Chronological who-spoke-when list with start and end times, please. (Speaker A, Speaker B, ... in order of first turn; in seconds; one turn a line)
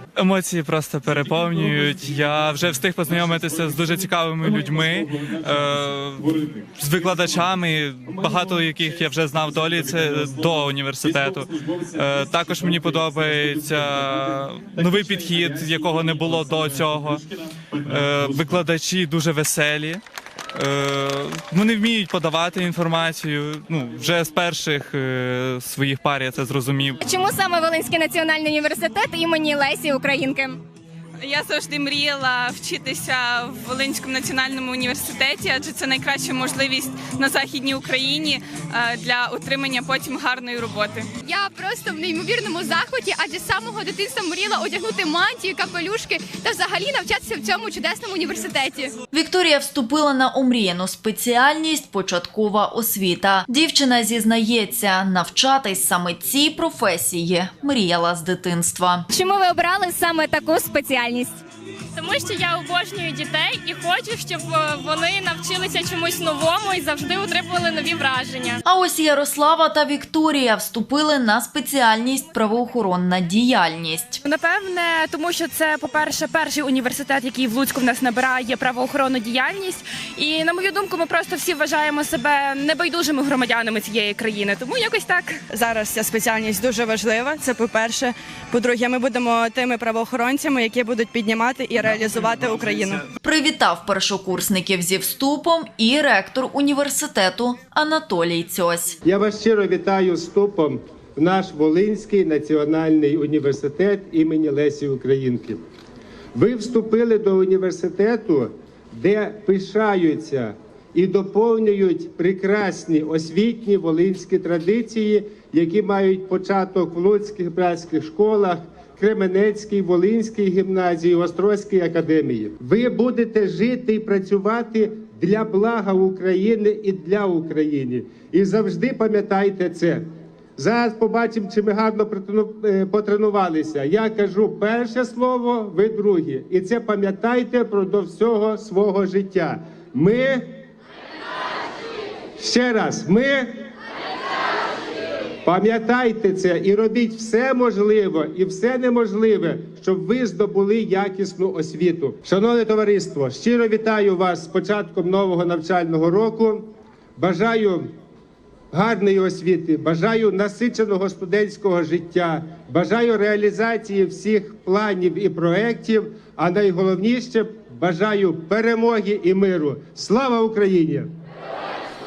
Speaker A: 0.1-17.2
Speaker A: 17.8-20.0
Speaker A: 20.5-27.0
Speaker B: 27.0-30.6
Speaker C: 31.2-41.1
Speaker D: 41.2-49.0
Speaker E: 49.1-59.0
Speaker B: 59.1-61.4
Speaker F: 62.0-68.6
Speaker E: 68.7-74.2
Speaker G: 74.2-85.4
Speaker H: 85.5-93.0
Speaker E: 93.2-99.0
Speaker I: 99.0-105.6
Speaker I: 106.3-130.0
Speaker I: 130.6-140.4
Speaker I: 142.4-143.5
Speaker I: 145.4-157.9
Speaker I: 158.7-171.1